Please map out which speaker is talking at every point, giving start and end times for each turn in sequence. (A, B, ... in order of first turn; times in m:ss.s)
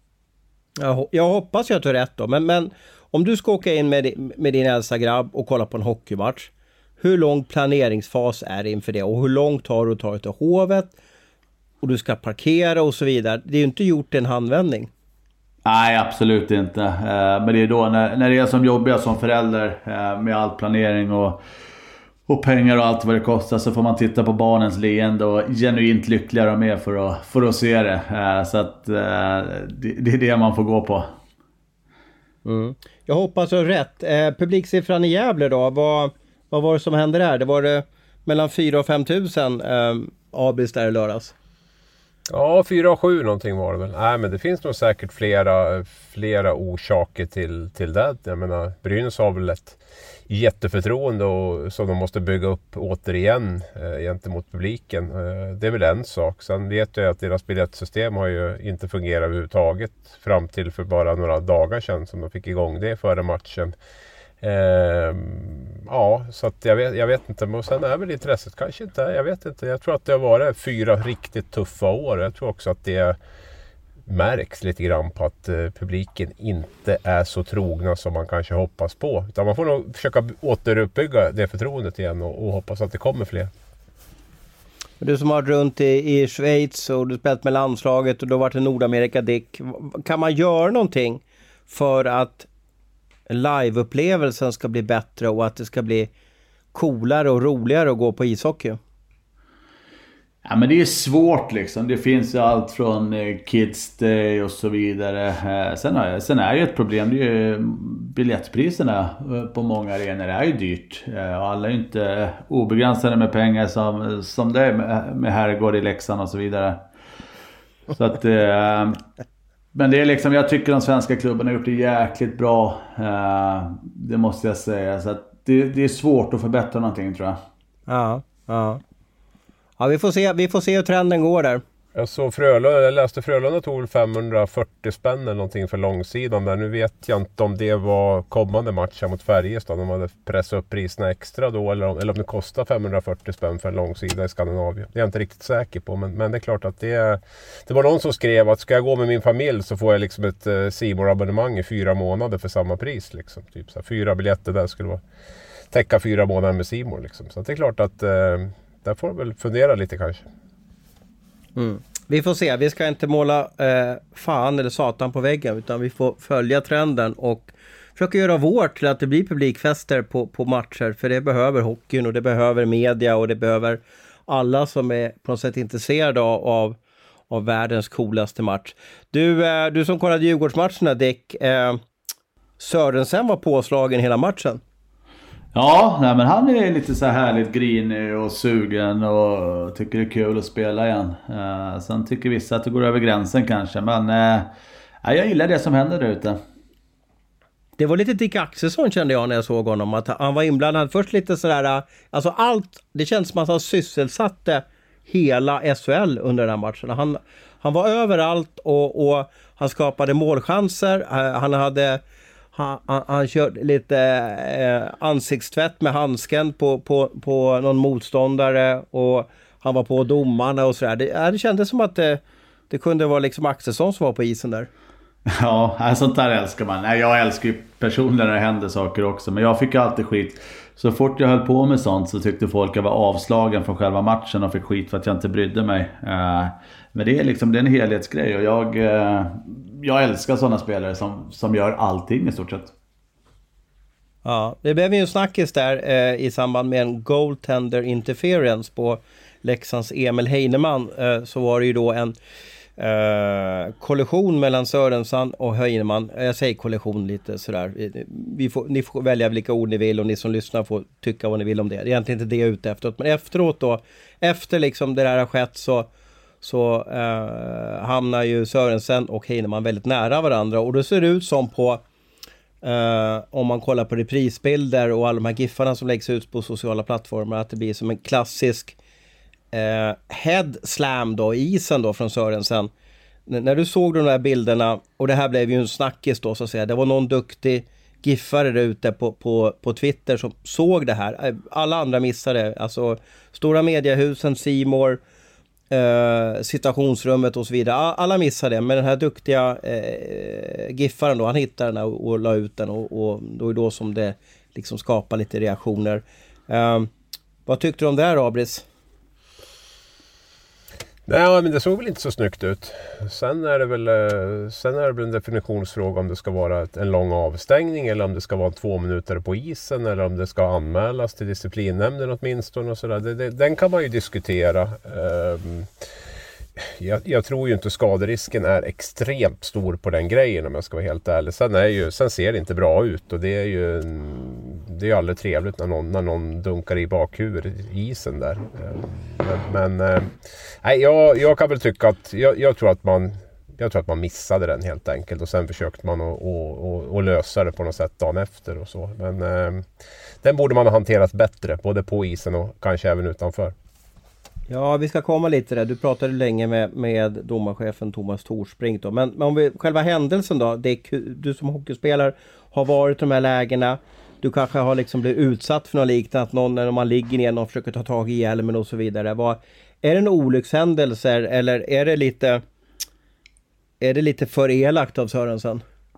0:00.8-0:10.9 A
0:11.8-0:14.9 A
0:15.6-0:21.4 B
0:22.3-0:31.1 B
0:32.4-0:41.3 A
0:42.3-1:03.7 C
1:04.4-1:13.2 C
1:14.0-1:23.5 C
1:25.0-1:32.5 A
1:33.3-1:36.1 A
1:36.7-1:38.8 A
1:40.4-1:56.8 B
1:57.9-1:59.0 B
1:59.7-2:07.4 B
2:07.9-2:08.8 A
2:09.8-2:11.6 A
2:11.9-2:35.0 C
2:35.7-2:40.3 C
2:41.6-2:56.8 A
2:57.3-3:01.8 A
3:02.6-3:04.6 A
3:05.5-3:14.5 B
3:15.0-3:16.4 B
3:17.8-3:32.0 A
3:32.5-3:44.7 A
3:45.3-4:02.7 B
4:04.2-4:12.1 A
4:12.8-4:25.9 A
4:26.4-4:31.8 A
4:32.6-4:38.8 A
4:39.5-4:42.7 A
4:43.3-4:55.0 A
4:55.7-5:06.9 A
5:07.4-5:08.6 A
5:11.1-5:25.8 C
5:26.6-5:49.7 C
5:50.2-5:53.5 C
5:54.5-6:12.4 A
6:13.8-6:15.6 A